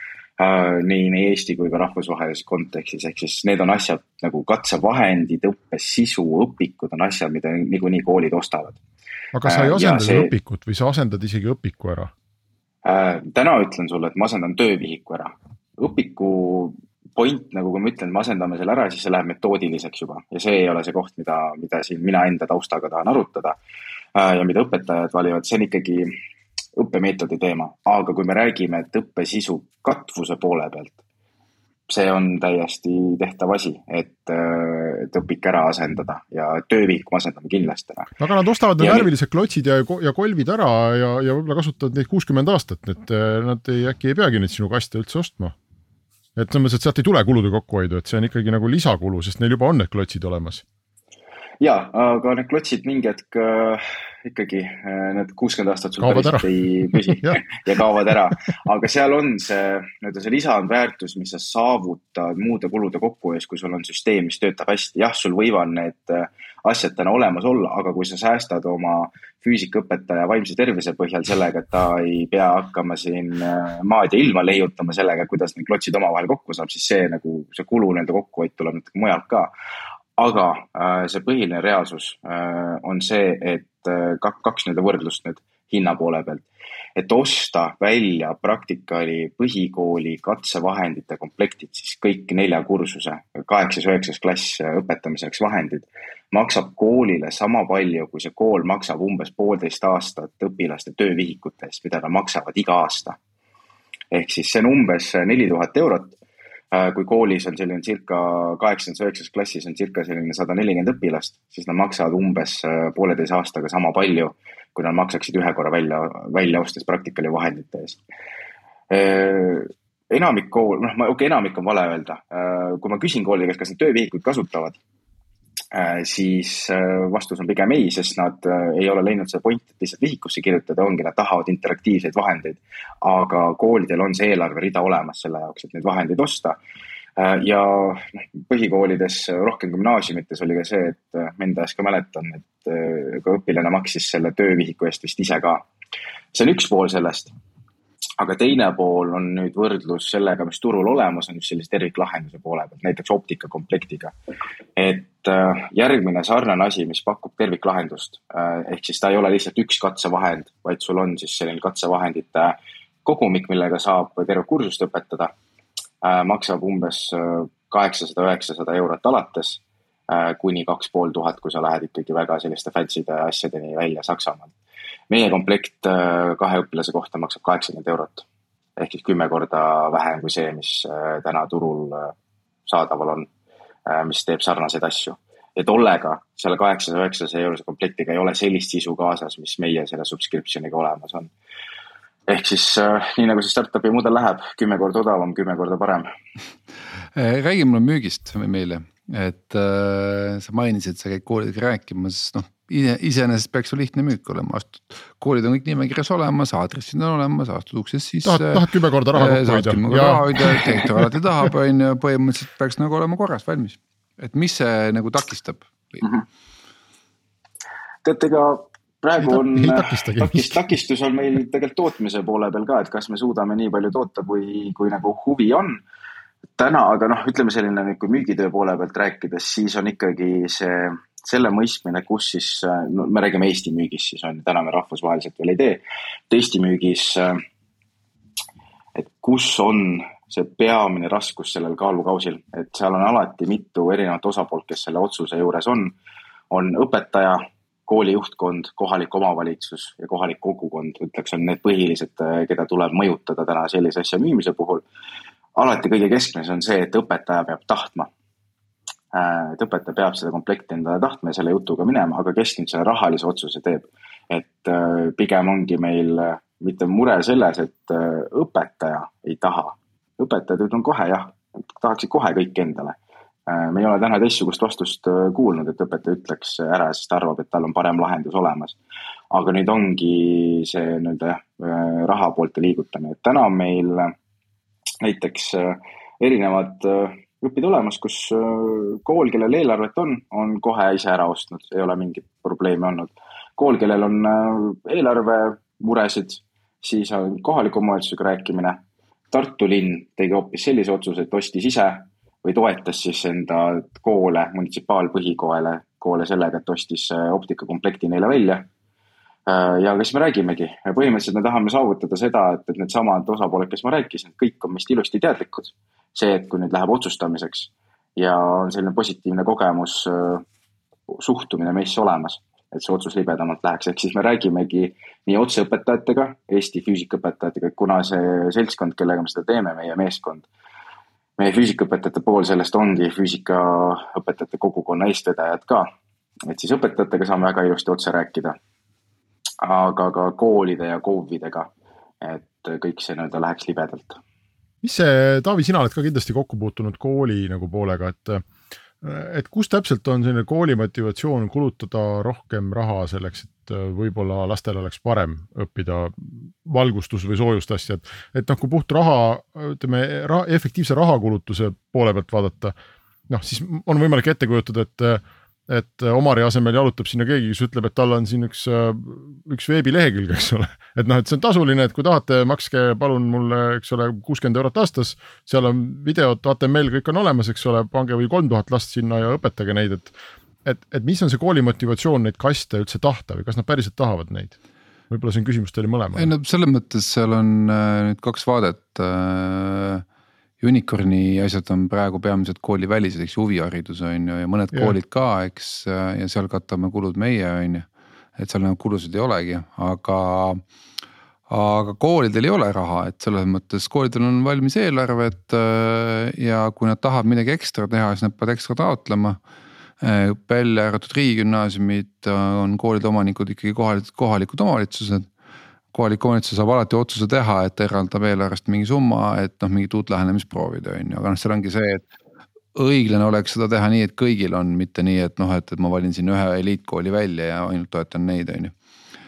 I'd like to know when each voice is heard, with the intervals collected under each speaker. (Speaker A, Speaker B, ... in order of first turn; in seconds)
Speaker A: 0.4-8.8, 9.4-10.3, 12.8-23.6, 24.1-26.1, 26.8-31.0, 31.9-38.1, 38.8-39.1, 51.6-79.5, 80.2-103.2, 104.1-106.2, 106.7-118.0, 118.9-124.8, 125.7-136.6, 137.2-145.7, 146.3-147.3, 148.2-154.1, 154.8-165.3, 166.0-174.5, 175.1-178.2, 178.8-182.1, 182.7-183.3, 183.9-191.3, 192.3-196.1, 218.0-225.8, 226.6-237.4, 238.9-245.9, 246.5-254.8, 255.6-258.1, 259.1-278.8, 279.3-284.1, 285.0-308.7, 309.5-320.4, 321.1-330.5, 331.4-335.9, 336.5-338.6, 339.6-341.7, 342.2-344.2
Speaker B: 9.3-12.1, 38.2-45.5, 46.4-50.6, 56.0-57.4, 208.2-210.6, 219.2-220.6, 344.8-348.4, 349.0-362.7, 363.3-380.1, 380.6-384.6, 385.1-386.3
Speaker C: 197.1-216.0, 386.1-390.0, 390.6-400.6, 401.5-409.4, 410.0-415.3, 415.9-422.1, 422.8-428.7